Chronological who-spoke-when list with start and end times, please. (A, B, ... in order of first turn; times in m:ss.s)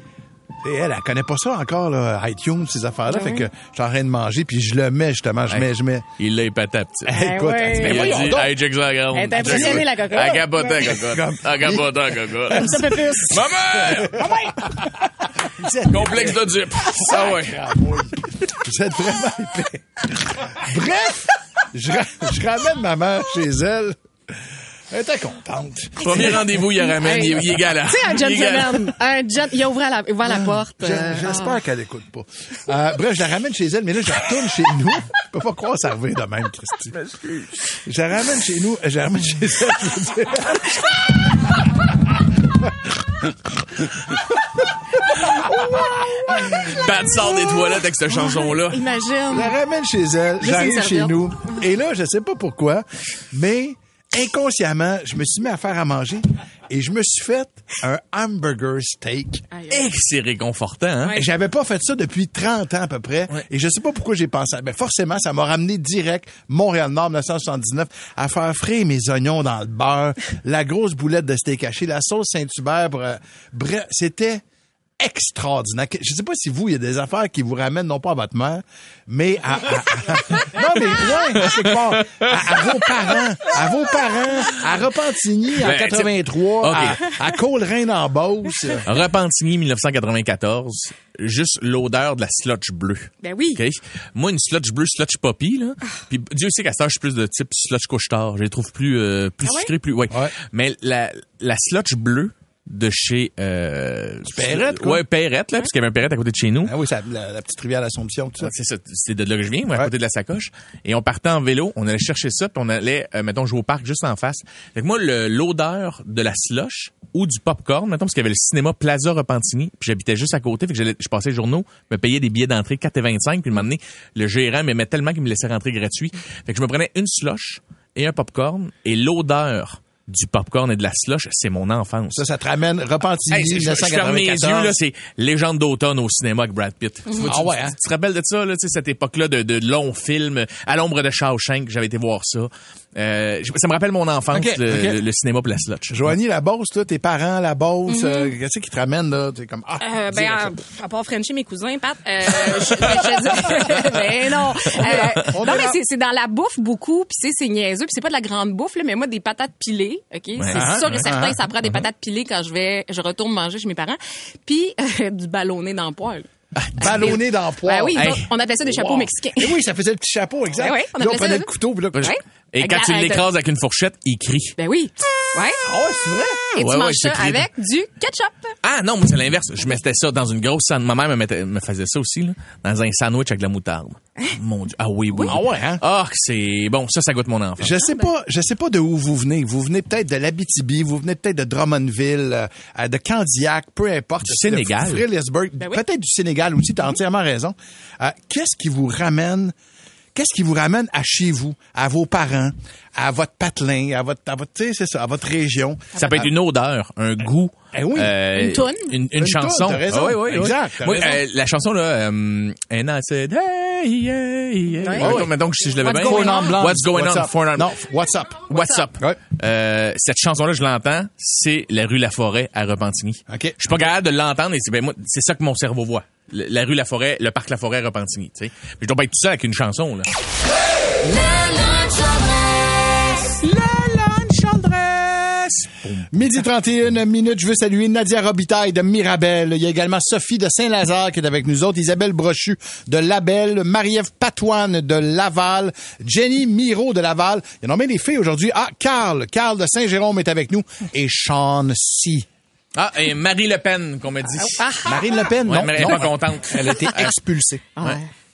0:00.6-0:06.0 A
0:03.1-0:03.4 B
0:06.2-0:07.2 C
0:07.0-0:08.5 A
0:07.1-0:08.4 B
0:07.7-0:14.3 C
0:09.1-0:10.6 B
0:09.3-0:13.1 A
0:12.5-0:13.4 B
0:13.7-0:14.8 A
0:14.2-0:14.6 B
0:15.4-0:24.0 A
0:15.9-0:17.7 C
0:24.9-0:26.5 A
0:26.0-0:28.9 C
0:26.0-0:31.6 B
0:30.3-0:37.0 A
0:37.1-0:37.4 B
0:37.8-0:41.1 A
0:42.6-0:42.9 A
0:45.4-0:46.8 A
0:46.3-0:48.8 C
0:48.1-0:49.6 B
0:49.3-0:59.4 A
0:50.4-0:51.6 B
0:59.5-0:59.9 B
0:59.7-1:01.2 C
1:01.1-1:14.4 A
1:15.0-1:28.9 A
1:21.6-1:22.3 C
1:25.6-1:27.3 C
1:28.8-1:46.7 C
1:33.2-1:33.6 B
1:39.4-1:39.7 B
1:44.3-1:45.0 A
1:46.6-1:48.5 A
1:48.4-2:12.2 C
2:12.1-2:14.8 A
2:13.3-2:26.1 C
2:17.2-2:17.8 A
2:24.3-2:25.0 A
2:25.9-2:30.5 A
2:27.9-2:28.3 B
2:29.8-2:46.3 B
2:32.5-2:33.7 A
2:34.7-2:35.8 A
2:40.4-2:41.1 C
2:40.5-2:41.4 A
2:46.6-2:47.2 C
2:46.8-2:52.1 A
2:46.8-2:49.6 B
2:47.9-2:48.2 C
2:50.6-2:53.3 B
2:51.9-2:54.6 C
2:54.6-2:55.6 B
2:55.6-2:56.5 A
2:56.5-2:58.5 B
2:56.6-2:57.4 C
2:58.6-3:07.8 C
3:05.2-3:05.8 A
3:07.6-3:19.5 A
3:14.2-3:15.0 C
3:20.1-3:26.3 A
3:26.0-3:37.7 C
3:27.7-3:28.2 A
3:28.3-3:28.9 B
3:29.1-3:31.2 A
3:34.8-3:35.3 B
3:35.0-3:39.2 A
3:35.8-3:36.6 B
3:38.5-3:50.1 C
3:38.5-3:38.8 B
3:43.3-3:43.6 A
3:53.2-3:56.4 C
3:53.5-3:54.5 A
3:56.1-4:12.3 A
4:12.7-4:14.7 C
4:14.6-4:14.9 B
4:14.8-4:17.7 A
4:15.4-4:17.1 C
4:17.8-4:18.1 B